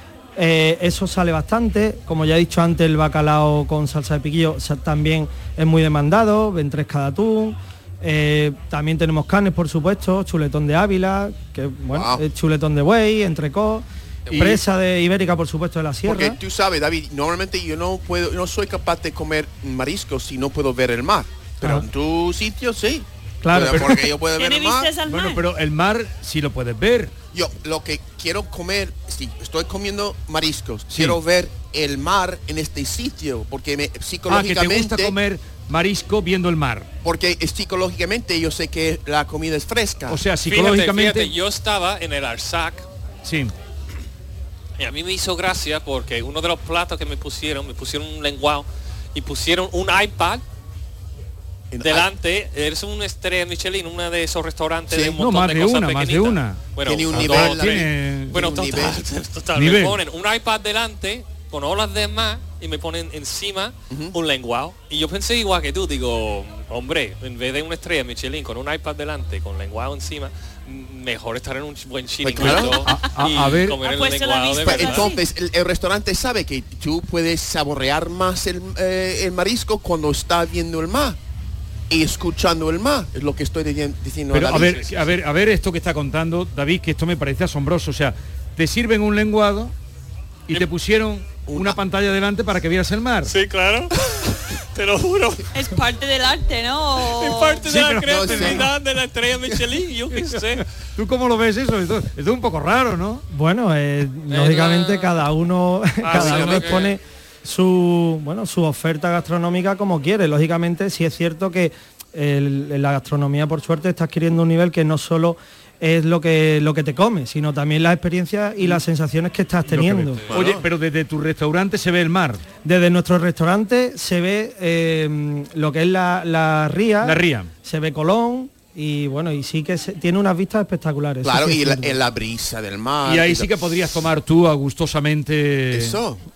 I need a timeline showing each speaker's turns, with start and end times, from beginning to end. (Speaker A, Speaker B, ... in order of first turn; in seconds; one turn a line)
Speaker A: 0.3-16.4
Speaker B: 11.9-12.2
Speaker C: 14.2-14.6
Speaker B: 16.0-24.9
Speaker A: 23.4-24.1
Speaker D: 24.4-25.4
Speaker E: 25.1-27.1
Speaker B: 27.3-35.1
Speaker E: 30.9-31.2
Speaker E: 34.3-36.9
Speaker B: 37.0-40.2
Speaker E: 40.1-41.3
Speaker C: 40.4-42.9
Speaker E: 43.2-43.5
Speaker C: 44.8-50.4
Speaker B: 51.7-52.1
Speaker C: 51.8-75.1
Speaker B: 54.9-55.2
Speaker E: 55.2-58.4
Speaker B: 56.8-59.0
Speaker E: 59.5-60.0
Speaker B: 72.2-72.8
Speaker E: 72.4-73.8
Speaker D: 73.8-75.2
Speaker B: 74.6-81.2
Speaker B: 81.9-85.1
Speaker E: 84.3-89.7
Speaker E: 90.5-93.3
Speaker B: 91.5-91.8
Speaker C: 93.2-95.4
Speaker D: 95.5-97.6
Speaker C: 97.1-100.6
Speaker E: 97.6-98.7
Speaker B: 98.0-98.7
Speaker E: 101.0-103.2
Speaker A: 103.3-120.3
Speaker C: 104.3-105.1
Speaker C: 106.0-106.9
Speaker E: 119.7-122.4
Speaker C: 120.1-120.5
Speaker B: 120.3-120.7
Speaker A: 122.6-132.0
Speaker E: 127.0-127.5
Speaker B: 131.2-133.8
Speaker E: 133.0-136.0
Speaker B: 135.7-136.2